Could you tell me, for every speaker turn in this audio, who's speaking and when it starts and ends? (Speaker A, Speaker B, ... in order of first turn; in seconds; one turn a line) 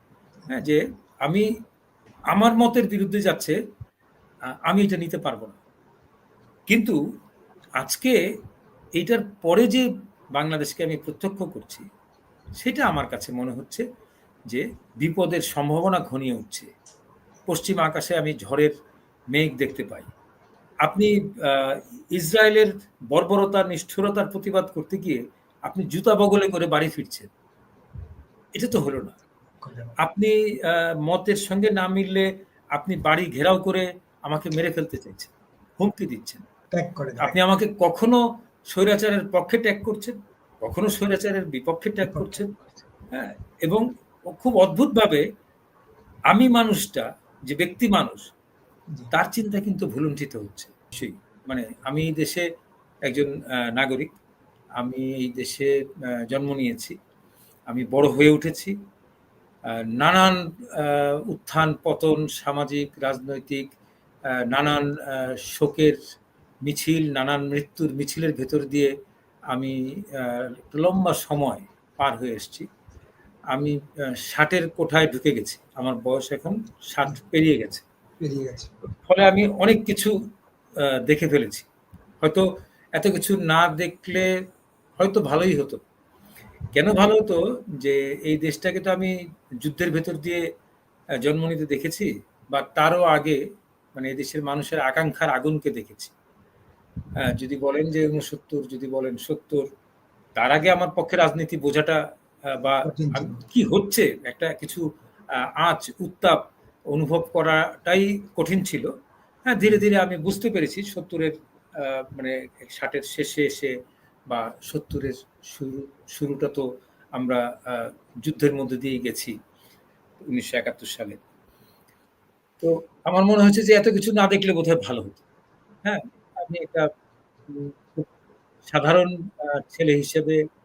Speaker A: 0.5-1.5
Speaker A: 2.3-3.5
Speaker A: 4.7-5.6
Speaker A: 6.7-7.0
Speaker A: 7.8-8.2
Speaker A: 9.0-11.8
Speaker A: 12.6-13.8
Speaker A: 14.5-16.7
Speaker A: 17.5-18.7
Speaker A: 19.3-20.1
Speaker A: 20.8-27.3
Speaker A: 28.6-29.2
Speaker B: 29.6-29.9
Speaker A: 30.0-36.4
Speaker B: 36.7-37.3
Speaker A: 37.2-38.2
Speaker A: 38.7-42.5
Speaker B: 42.1-42.4
Speaker A: 43.1-45.2
Speaker A: 46.3-48.2
Speaker A: 49.1-52.5
Speaker A: 53.1-54.1
Speaker A: 54.8-55.7
Speaker A: 56.3-57.0
Speaker A: 57.7-58.7
Speaker A: 59.7-63.7
Speaker A: 64.3-66.0
Speaker A: 66.6-68.9
Speaker A: 69.5-72.7
Speaker A: 73.5-77.8
Speaker B: 78.2-78.7
Speaker A: 79.0-80.1
Speaker A: 80.8-81.7
Speaker A: 82.2-84.3
Speaker A: 85.0-85.8
Speaker A: 86.7-90.4
Speaker A: 91.2-93.4
Speaker A: 93.9-96.1
Speaker A: 97.2-99.7
Speaker A: 100.4-102.0
Speaker A: 102.5-104.8
Speaker B: 102.8-103.4
Speaker A: 105.4-106.4
Speaker A: 106.9-108.8
Speaker A: 109.5-113.7
Speaker A: 114.3-119.3
Speaker A: 120.2-121.2
Speaker A: 122.6-125.2
Speaker A: 125.8-126.9
Speaker A: 127.5-128.1
Speaker A: 128.7-130.4